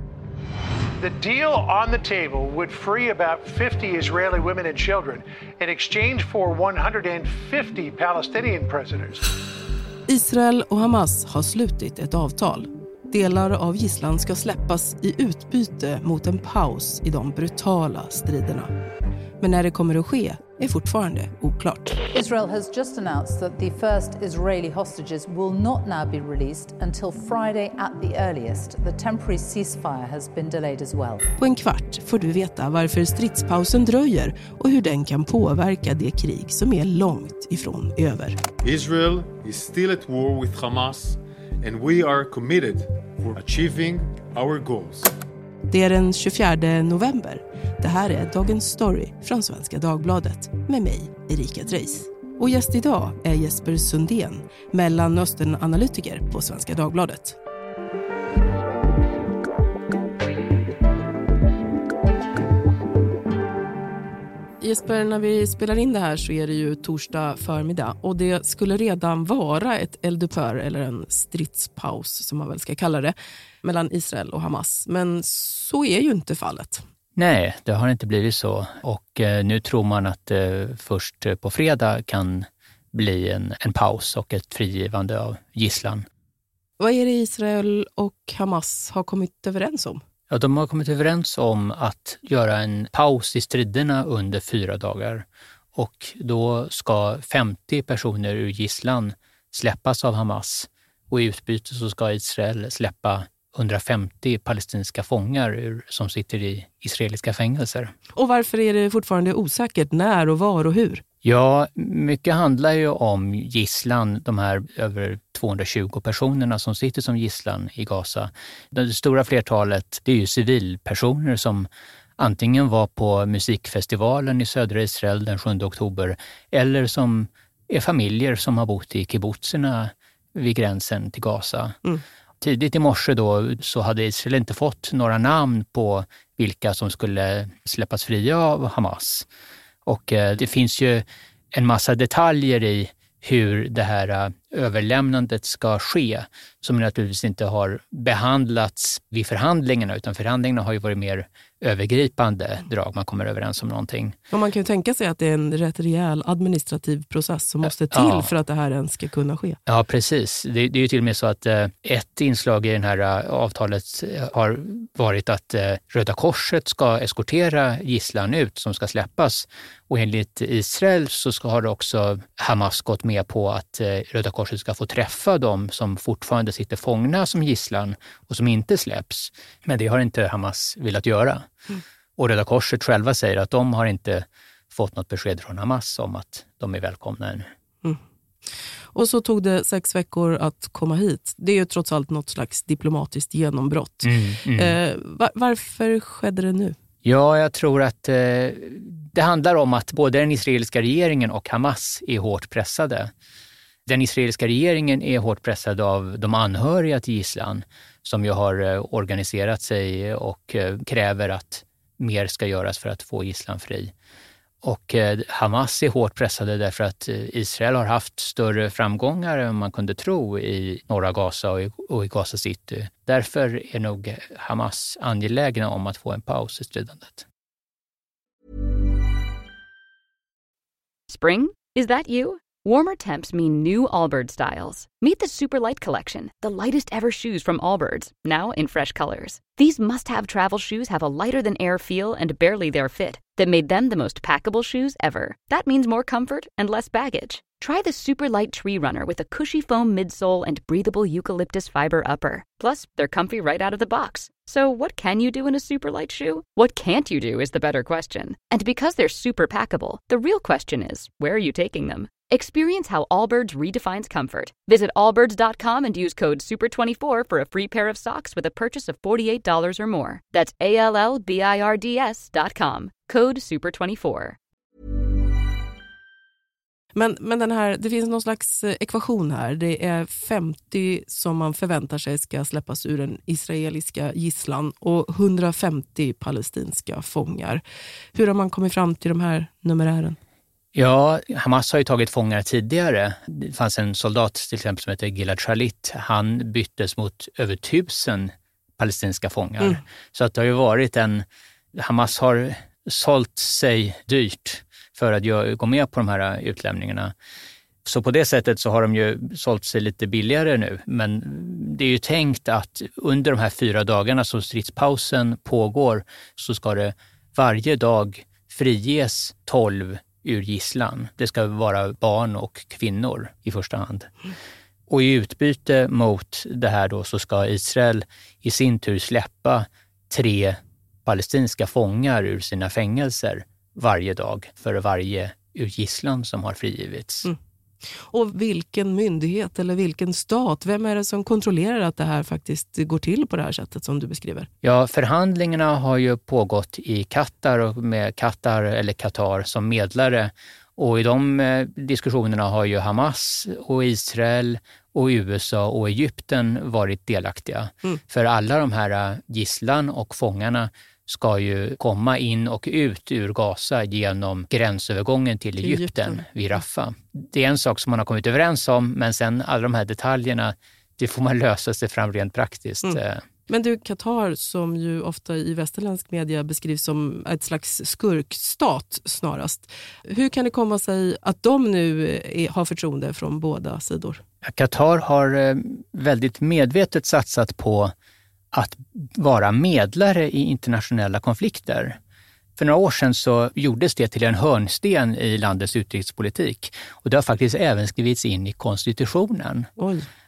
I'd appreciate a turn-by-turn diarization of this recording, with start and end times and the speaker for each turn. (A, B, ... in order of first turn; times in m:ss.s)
0:01.0-0:09.2 A
0:10.1-0:18.7 B
0:19.4-0:22.0 B
0:22.1-0:31.2 C
0:31.4-0:38.4 B
0:38.6-0:45.1 D
0:45.7-0:57.4 B
1:04.6-1:16.8 B
1:17.2-1:26.1 E
1:26.8-1:30.0 B
1:30.3-1:47.9 E
1:48.2-1:51.0 B
1:51.2-2:01.7 E
2:02.2-2:11.8 E
2:12.4-2:19.3 E
2:19.9-2:34.2 E
2:34.3-2:39.6 B
2:37.6-2:38.3 E
2:39.7-3:01.5 E
3:02.2-3:07.5 E
3:08.9-3:16.8 B
3:14.0-3:14.8 E
3:17.0-3:23.1 E
3:23.9-3:33.9 E
3:34.6-3:47.3 E
3:51.1-4:34.4 F
4:37.0-4:47.6 B
4:48.1-4:50.2 B
4:50.7-5:07.1 E
5:07.8-5:24.1 E
5:24.9-5:37.3 E
5:38.1-5:44.5 B
5:44.6-6:13.2 E
6:05.6-6:06.2 B
6:12.8-6:24.2 B
6:24.4-6:27.9 E
6:28.5-6:32.0 E
6:32.6-6:39.7 E
6:39.8-6:40.1 B